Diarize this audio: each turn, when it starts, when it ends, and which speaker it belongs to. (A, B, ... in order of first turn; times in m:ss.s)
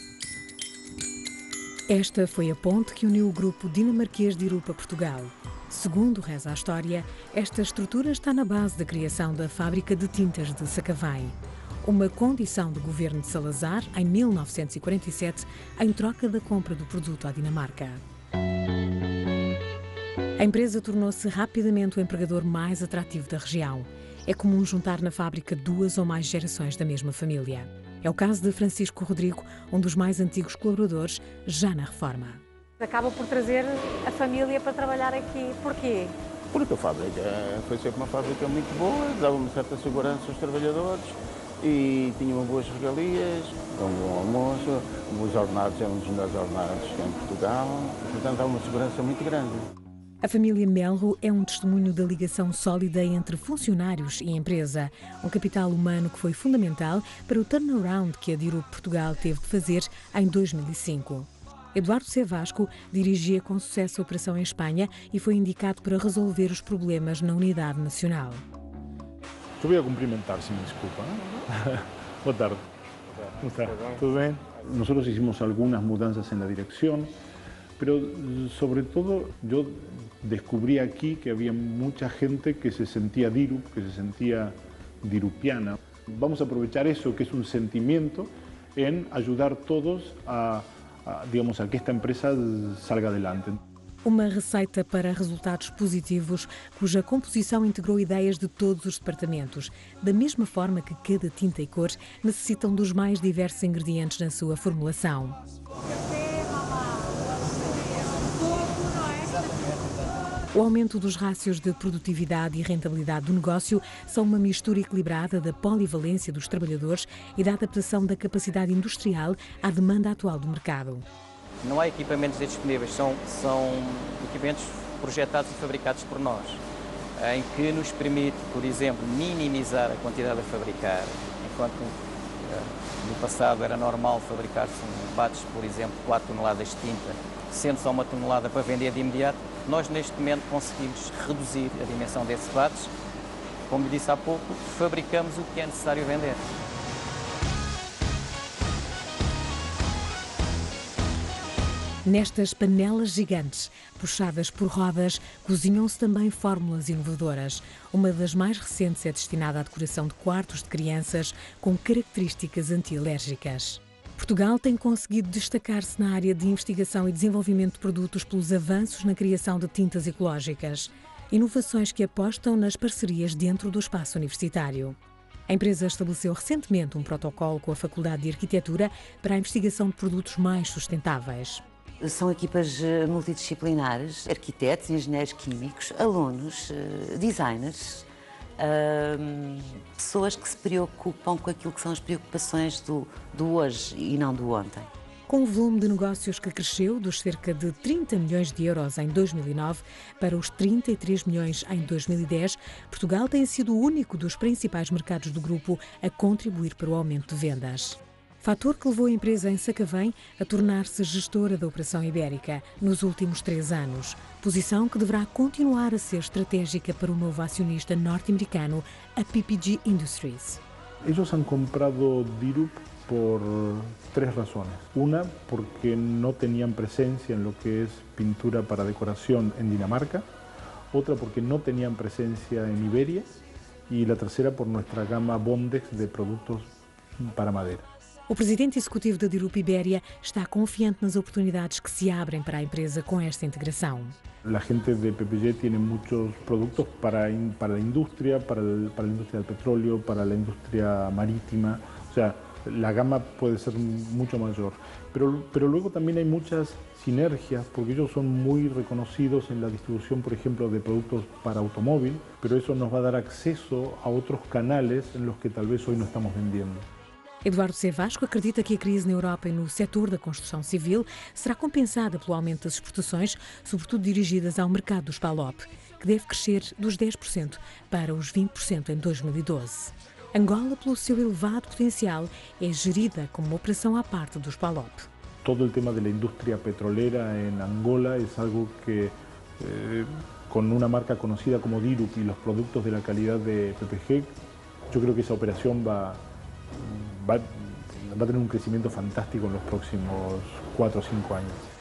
0:01.9-0:18.0 A
0:20.4-0:32.4 A
0:32.8-0:36.1 B
0:36.5-0:49.7 C
0:50.2-1:08.4 A
1:09.6-1:12.6 D
1:13.4-1:17.1 D
1:17.8-1:33.6 D
1:34.0-1:45.4 A
1:48.6-1:49.2 B
1:50.5-2:01.0 A
2:01.6-2:06.6 E
2:07.2-2:22.9 E
2:23.7-2:26.4 E
2:32.0-2:55.0 A
2:55.5-3:01.6 A
3:02.0-3:14.9 F
3:15.3-3:40.6 A
3:41.0-3:50.3 D
3:50.9-3:53.4 D
3:53.9-3:57.8 D
3:58.3-4:04.2 A
4:04.4-4:26.9 D
4:27.4-4:45.1 A
4:45.4-4:54.3 D
4:54.9-4:56.2 D
4:56.7-5:01.7 D